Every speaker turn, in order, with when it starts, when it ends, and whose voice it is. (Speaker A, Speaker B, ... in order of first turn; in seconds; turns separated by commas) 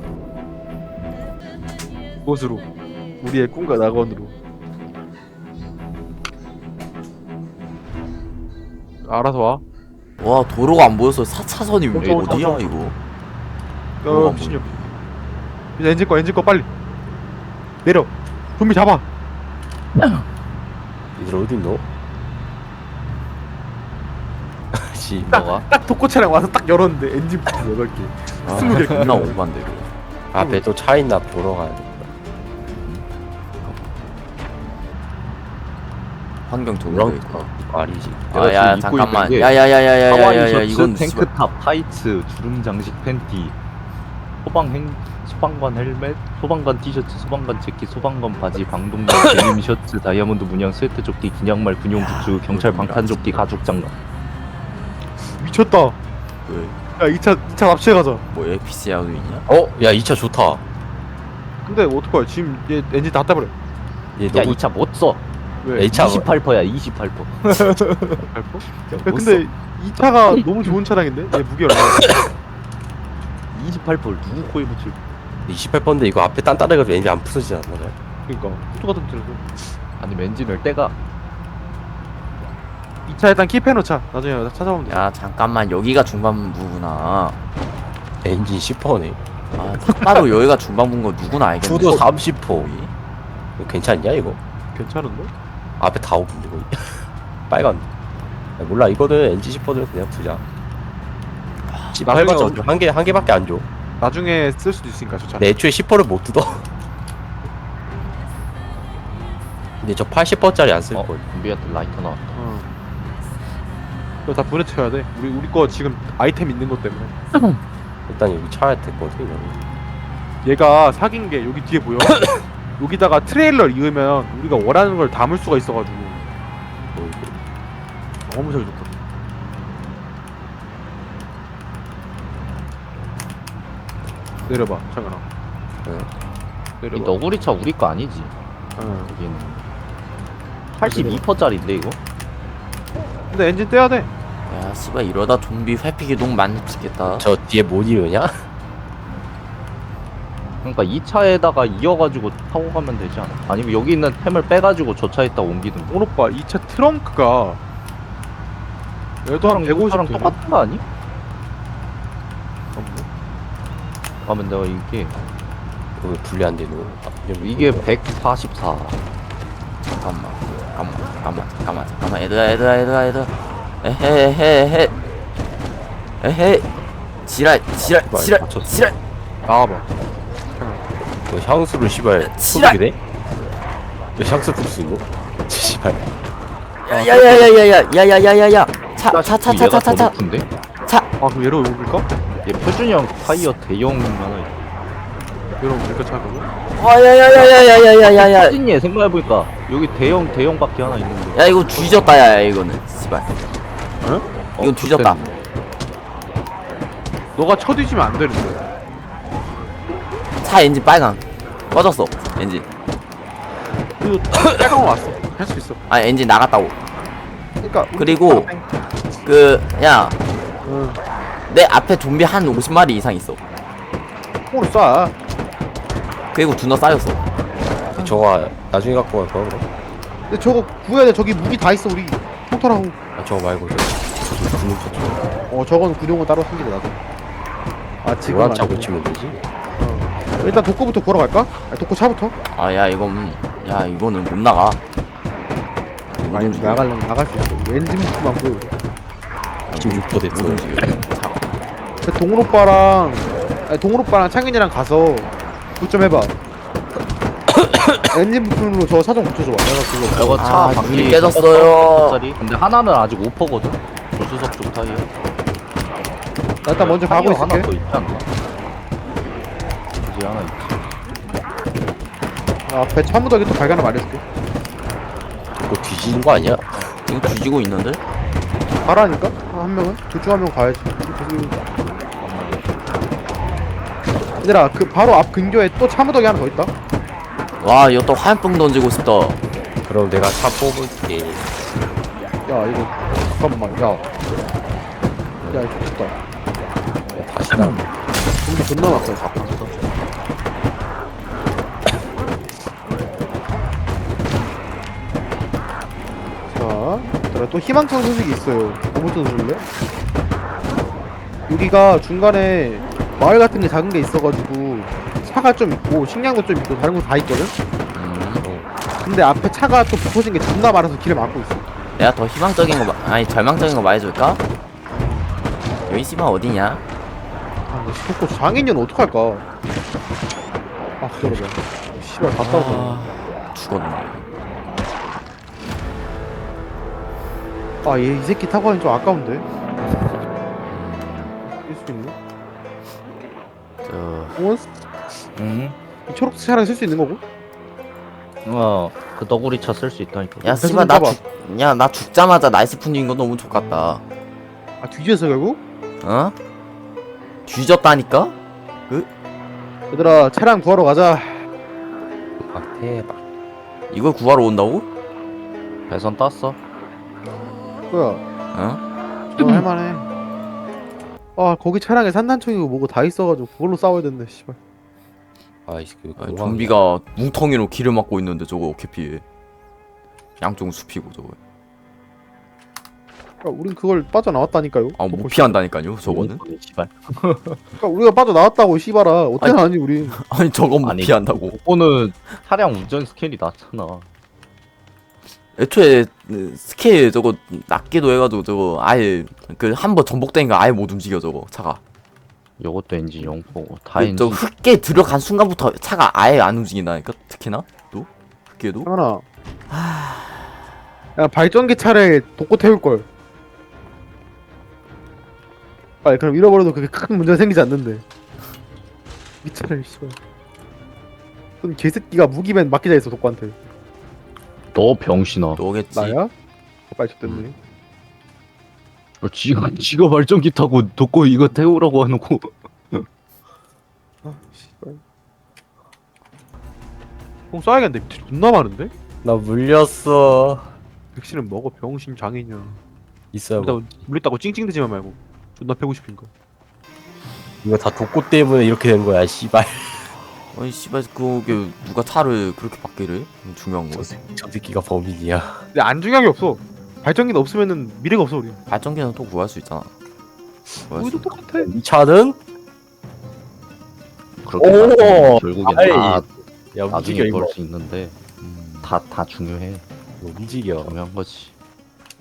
Speaker A: 2.2-2.6, Speaker A: 3.2-4.3, Speaker A: 9.0-9.6, Speaker B: 10.2-13.0, Speaker A: 11.9-12.7, Speaker C: 12.0-12.6, Speaker A: 14.0-14.7, Speaker B: 14.1-14.9, Speaker A: 15.8-16.7, Speaker A: 17.8-19.0, Speaker C: 20.0-20.2, Speaker D: 21.1-21.8, Speaker D: 24.7-25.4, Speaker C: 25.3-25.6, Speaker A: 25.3-29.4, Speaker B: 28.4-29.9, Speaker C: 28.6-29.3, Speaker D: 30.3-32.1, Speaker A: 30.4-30.6, Speaker B: 33.6-33.9, Speaker B: 36.5-37.5, Speaker D: 36.9-38.3, Speaker B: 38.3-41.3, Speaker C: 38.3-43.5, Speaker C: 44.4-54.0, Speaker D: 49.1-49.5, Speaker B: 51.9-53.5, Speaker A: 55.4-56.0, Speaker B: 56.5-56.8, Speaker A: 57.0-58.2, Speaker B: 58.3-59.5, Speaker D: 59.5-60.6, Speaker A: 61.6-63.5, Speaker D: 64.2-64.6, Speaker C: 64.3-65.2, Speaker A: 65.6-65.9, Speaker D: 65.8-66.3, Speaker C: 65.9-68.2, Speaker A: 68.2-72.1, Speaker C: 68.8-69.4, Speaker C: 73.5-75.0, Speaker D: 75.5-78.0, Speaker A: 78.3-79.4, Speaker C: 80.0-81.0, Speaker A: 83.1-85.1, Speaker B: 84.9-87.4, Speaker D: 88.2-89.2, Speaker B: 89.5-92.9, Speaker D: 91.6-92.7, Speaker C: 91.9-92.7, Speaker D: 93.6-94.4, Speaker A: 94.7-95.3, Speaker D: 95.8-97.9, Speaker D: 98.6-100.4, Speaker B: 101.7-102.0, Speaker D: 101.9-103.7, Speaker A: 102.1-102.7, Speaker A: 104.0-105.5, Speaker D: 105.4-106.7, Speaker D: 109.8-111.2, Speaker C: 110.9-112.4, Speaker A: 112.3-112.7, Speaker A: 114.2-117.1, Speaker D: 118.1-119.6, Speaker A: 120.4-122.2, Speaker D: 122.0-122.4, Speaker A: 122.8-126.3, Speaker D: 126.9-127.4, Speaker A: 128.2-128.9, Speaker A: 134.4-135.2, Speaker D: 135.8-136.1, Speaker A: 136.8-137.2, Speaker C: 136.9-138.3, Speaker A: 138.8-139.1, Speaker C: 139.0-139.6, Speaker C: 140.7-142.0, Speaker A: 140.8-141.2, Speaker A: 143.3-144.1, Speaker B: 144.5-147.3, Speaker D: 147.1-148.5, Speaker C: 150.6-156.0, Speaker A: 155.9-157.6, Speaker A: 159.2-160.4, Speaker C: 159.4-160.8, Speaker A: 162.8-163.1, Speaker C: 164.2-165.2, Speaker D: 166.0-167.9, Speaker C: 167.4-169.0, Speaker B: 170.0-175.0, Speaker B: 176.2-176.7, Speaker B: 177.2-179.0, Speaker D: 177.8-178.8, Speaker A: 179.5-179.9, Speaker A: 180.6-180.8, Speaker D: 181.3-183.0, Speaker B: 182.2-182.8, Speaker D: 184.2-186.0, Speaker B: 186.9-190.2, Speaker A: 186.9-187.5, Speaker C: 189.0-190.5, Speaker A: 191.2-192.1, Speaker C: 192.4-194.6, Speaker A: 195.6-196.5, Speaker B: 196.7-198.6, Speaker C: 198.1-201.8, Speaker B: 201.3-203.3, Speaker C: 204.6-205.3, Speaker B: 204.6-205.3, Speaker A: 207.3-208.6, Speaker B: 210.4-212.7, Speaker A: 214.0-215.8, Speaker B: 215.9-216.8, Speaker A: 217.6-218.6, Speaker B: 217.9-218.5, Speaker B: 219.2-220.2, Speaker A: 220.7-221.0, Speaker B: 221.5-223.4, Speaker A: 224.5-225.1, Speaker B: 226.3-227.2, Speaker D: 227.9-229.7, Speaker A: 230.3-233.0, Speaker D: 233.2-235.2, Speaker A: 235.5-237.0, Speaker A: 238.0-238.9, Speaker D: 238.2-239.4, Speaker A: 239.8-242.3, Speaker B: 242.5-244.8, Speaker B: 246.2-246.9, Speaker A: 246.3-248.7, Speaker B: 249.7-251.4, Speaker D: 249.8-250.7, Speaker A: 252.1-256.3, Speaker A: 258.1-261.2, Speaker C: 260.1-265.1, Speaker B: 260.4-262.2, Speaker A: 266.6-267.7, Speaker C: 266.7-268.3, Speaker C: 270.0-270.8, Speaker A: 272.6-274.2, Speaker D: 275.7-276.8, Speaker B: 277.0-278.0, Speaker A: 278.8-281.6, Speaker A: 284.4-286.7, Speaker B: 287.6-289.4, Speaker D: 289.8-291.4, Speaker A: 292.4-294.0, Speaker A: 295.5-296.1, Speaker D: 297.1-297.9, Speaker A: 298.4-299.5, Speaker D: 298.9-299.8, Speaker A: 306.5-309.6, Speaker A: 311.5-317.5, Speaker B: 317.9-318.4, Speaker D: 318.4-318.7, Speaker A: 319.0-321.7, Speaker B: 322.0-324.4, Speaker B: 325.9-326.8, Speaker A: 327.7-329.4, Speaker A: 331.0-333.0, Speaker B: 332.4-334.2, Speaker A: 337.8-339.5, Speaker B: 340.7-341.3, Speaker A: 341.4-342.1, Speaker B: 343.8-344.4, Speaker A: 344.4-344.7, Speaker C: 345.3-345.8, Speaker A: 346.1-347.2, Speaker C: 348.4-350.6, Speaker B: 350.4-354.0, Speaker A: 350.4-351.2, Speaker A: 354.8-355.6, Speaker B: 356.0-356.3, Speaker B: 357.5-358.4, Speaker A: 359.9-361.4, Speaker D: 362.4-363.2, Speaker B: 363.9-364.9, Speaker C: 365.9-366.6, Speaker A: 367.9-368.2, Speaker B: 368.5-368.8, Speaker A: 369.4-370.1, Speaker A: 371.4-374.6, Speaker D: 375.7-376.8, Speaker B: 376.2-379.2, Speaker B: 380.4-381.4, Speaker A: 383.4-385.6, Speaker B: 385.0-386.4, Speaker C: 386.1-387.6, Speaker A: 387.8-390.2, Speaker B: 389.4-391.6, Speaker C: 390.8-394.1, Speaker B: 395.6-401.8, Speaker C: 402.6-404.4, Speaker B: 403.9-408.9, Speaker A: 408.8-409.2, Speaker B: 409.7-410.6, Speaker A: 411.1-413.1, Speaker A: 416.0-418.0, Speaker A: 419.4-420.2, Speaker A: 421.6-423.6, Speaker C: 424.7-425.6, Speaker B: 425.6-426.2, Speaker A: 425.9-426.3, Speaker A: 426.9-427.5, Speaker B: 427.2-427.5, Speaker C: 429.2-433.0, Speaker A: 434.2-435.0, Speaker A: 437.5-438.9, Speaker D: 439.2-440.7, Speaker A: 441.1-442.8, Speaker D: 443.3-443.8, Speaker A: 443.6-446.3, Speaker D: 447.6-450.1, Speaker B: 450.5-454.1, Speaker D: 453.9-455.6, Speaker A: 455.7-458.6, Speaker B: 458.7-459.9, Speaker B: 460.8-461.3, Speaker A: 460.9-461.7, Speaker D: 461.6-462.4, Speaker C: 464.4-466.3, Speaker D: 464.6-467.5, Speaker C: 466.9-468.1, Speaker B: 468.4-469.0, Speaker C: 468.8-469.8, Speaker D: 470.2-470.9, Speaker C: 470.8-471.5